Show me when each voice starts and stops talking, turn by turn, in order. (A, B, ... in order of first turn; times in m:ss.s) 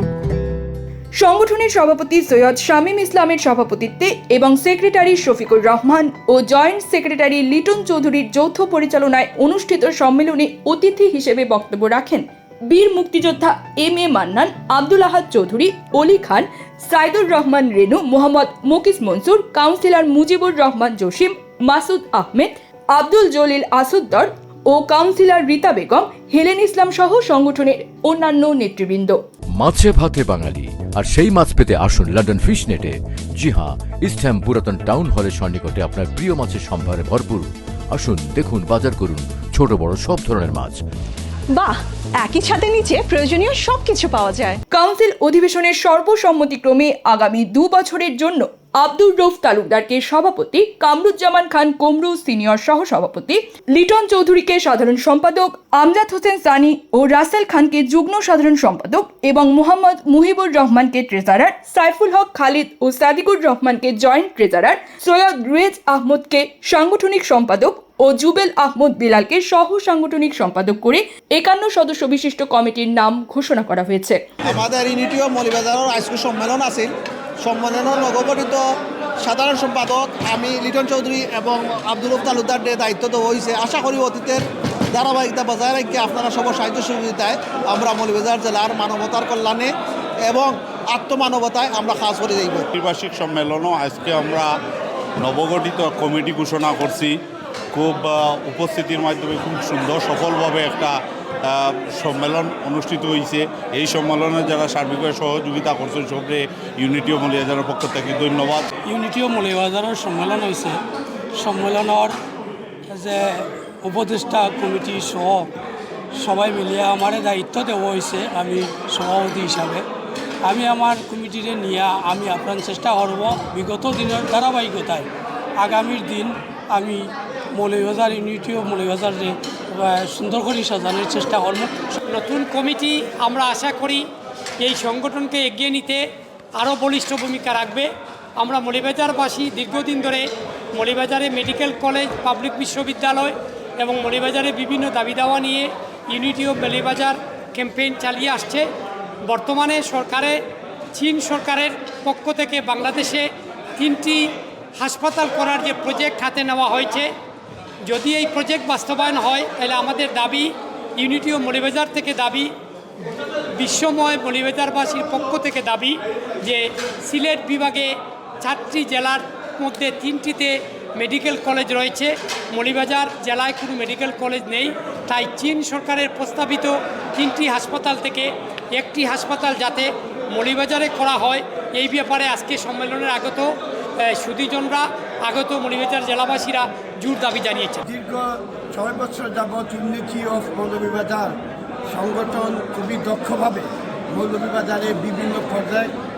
0:01.2-0:29.2 A
0:29.6-0:40.8 B
0:41.5-0:44.6 C
0:44.7-1:14.2 A
1:14.4-1:16.9 D
1:17.4-1:18.6 D
1:19.2-1:29.7 D
1:30.2-1:32.7 D
1:32.7-1:34.5 E
1:35.2-1:37.1 E
1:37.7-1:48.6 E
1:48.8-1:50.8 F
1:51.4-1:52.2 F
1:52.9-1:55.5 F
1:56.1-1:59.8 F
2:00.4-2:11.7 F
2:12.0-2:14.1 G
2:14.6-2:28.7 G
2:29.2-2:30.4 G
2:30.9-2:37.1 G
2:37.8-2:42.5 G
2:43.6-3:07.8 G
3:07.8-3:11.3 H
3:11.9-3:15.9 H